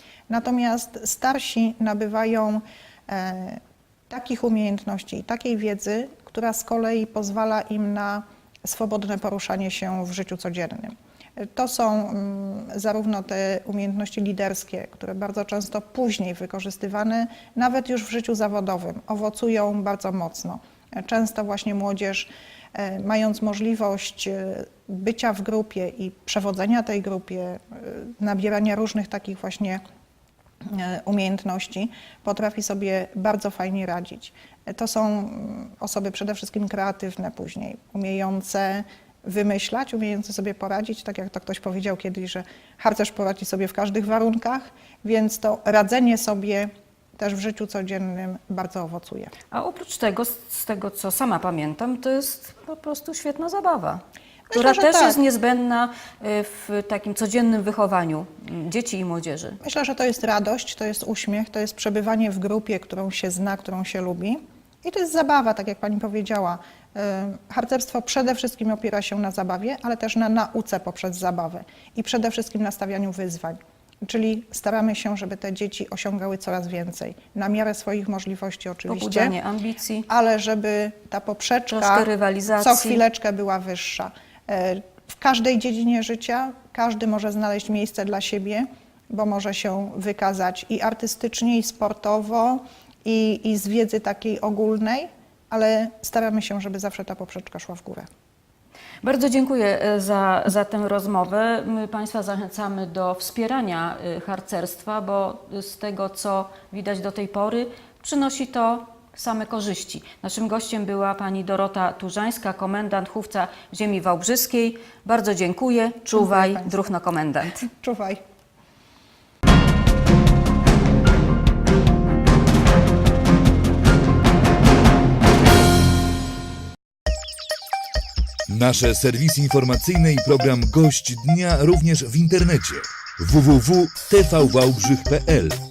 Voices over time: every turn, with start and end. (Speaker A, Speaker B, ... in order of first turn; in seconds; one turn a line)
Speaker A: 0.3-29.8
Speaker A: 30.6-49.3
Speaker B: 49.5-54.0
Speaker A: 54.5-55.2
Speaker B: 54.5-59.6
Speaker A: 59.6-79.3
Speaker B: 78.9-80.1
Speaker A: 80.1-98.1
Speaker B: 81.7-83.0
Speaker B: 99.0-117.7
Speaker A: 116.1-116.8
Speaker A: 117.6-118.2
Speaker C: 128.5-135.6